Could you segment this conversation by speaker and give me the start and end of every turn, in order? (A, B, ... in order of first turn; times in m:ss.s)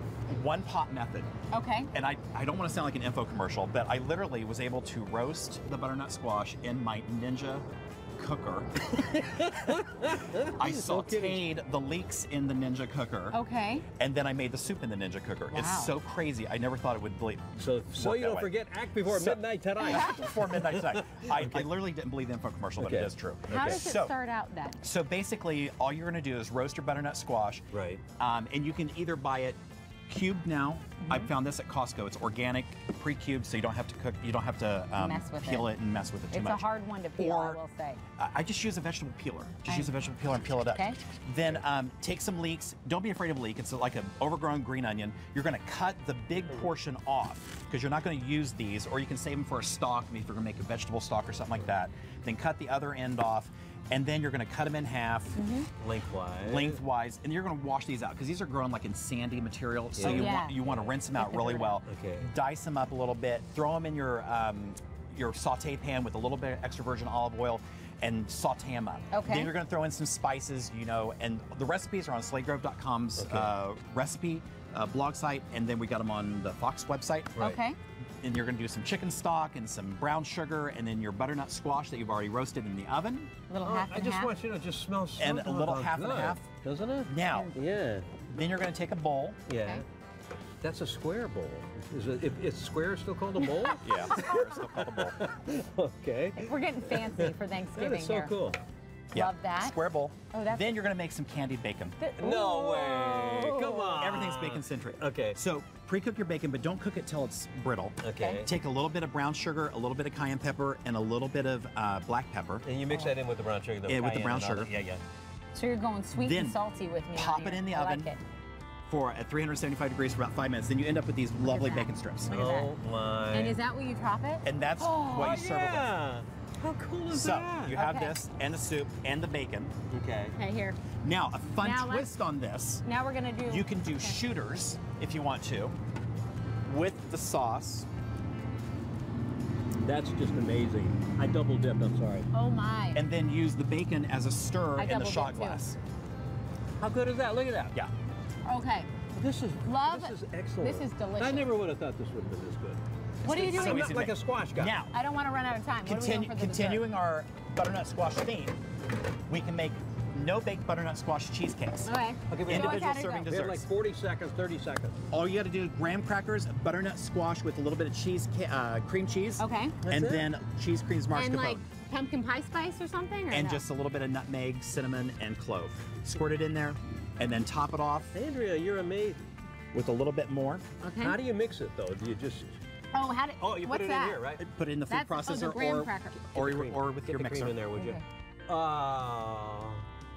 0:00.3-0:01.3 A
0:01.5-0:01.9 B
0:01.9-0:07.7 A
0:08.2-0:09.0 A
0:08.9-0:11.4 C
0:10.5-0:13.4 A
0:13.3-0:13.8 B
0:14.0-0:18.5 A
0:15.5-0:16.0 B
0:17.6-0:21.7 C
0:19.0-0:24.1 A
0:19.8-0:20.3 B
0:22.8-0:23.9 C
0:23.5-0:24.8 B
0:24.8-0:27.6 A
0:27.7-0:28.0 C
0:28.2-0:37.6 A
0:31.0-0:31.3 B
0:35.0-0:35.7 B
0:36.3-0:38.0 B
0:38.2-0:55.5 A
0:39.7-0:39.9 B
0:40.7-0:41.0 B
0:55.4-0:55.7 B
0:55.8-0:56.8 C
0:56.4-1:17.4 A
0:59.9-1:01.0 C
1:00.0-1:00.6 B
1:01.2-1:01.8 B
1:01.9-1:02.3 C
1:09.1-1:09.6 B
1:13.2-1:13.5 C
1:17.4-1:17.8 B
1:18.2-1:23.3 A
1:23.5-1:24.3 B
1:23.6-1:28.2 C
1:25.2-1:26.5 A
1:27.0-1:27.6 A
1:28.3-1:29.4 A
1:29.5-1:29.8 C
1:30.6-1:38.6 C
1:33.8-1:35.2 A
1:36.3-1:38.3 B
1:39.1-1:42.0 A
1:39.1-1:39.8 B
1:40.3-1:40.8 B
1:42.0-1:44.0 B
1:42.2-1:45.4 C
1:44.0-1:52.6 A
1:48.0-1:48.5 C
1:48.2-1:48.4 B
1:52.6-1:55.0 C
1:53.9-1:54.7 A
1:55.5-1:58.2 B
1:56.1-1:56.6 A
1:57.1-1:58.1 A
1:58.9-2:02.3 A
2:01.4-2:02.7 B
2:02.3-2:03.6 C
2:03.3-2:04.4 B
2:04.4-2:05.9 A
2:04.8-2:07.8 C
2:07.1-2:09.8 A
2:07.8-2:08.2 B
2:09.9-2:10.4 C
2:10.3-2:10.8 B
2:11.0-2:12.8 A
2:11.6-2:12.1 B
2:12.8-2:14.2 B
2:13.4-2:15.8 A
2:16.6-2:17.9 A
2:19.8-2:22.3 C
2:22.3-2:23.0 B
2:22.9-2:25.8 A
2:24.8-2:25.6 B
2:26.8-2:27.8 C
2:28.4-2:29.0 B
2:29.1-2:34.8 C
2:29.6-2:31.5 B
2:33.2-2:33.9 B
2:33.2-2:34.9 A
2:34.9-2:36.9 B
2:35.9-2:38.6 A
2:39.3-2:43.7 A
2:41.9-2:43.3 B
2:42.3-2:45.0 C
2:45.1-2:51.6 A
2:49.4-2:49.8 B
2:49.9-2:50.3 C
2:51.1-2:53.6 B
2:53.3-2:58.1 A
2:58.1-2:59.2 C
2:59.7-3:00.7 A
3:00.8-3:01.2 B
3:01.0-3:02.5 C
3:02.9-3:04.2 B
3:03.4-3:04.4 C
3:04.4-3:07.6 A
3:04.9-3:06.2 B
3:06.3-3:09.8 C
3:07.7-3:08.0 B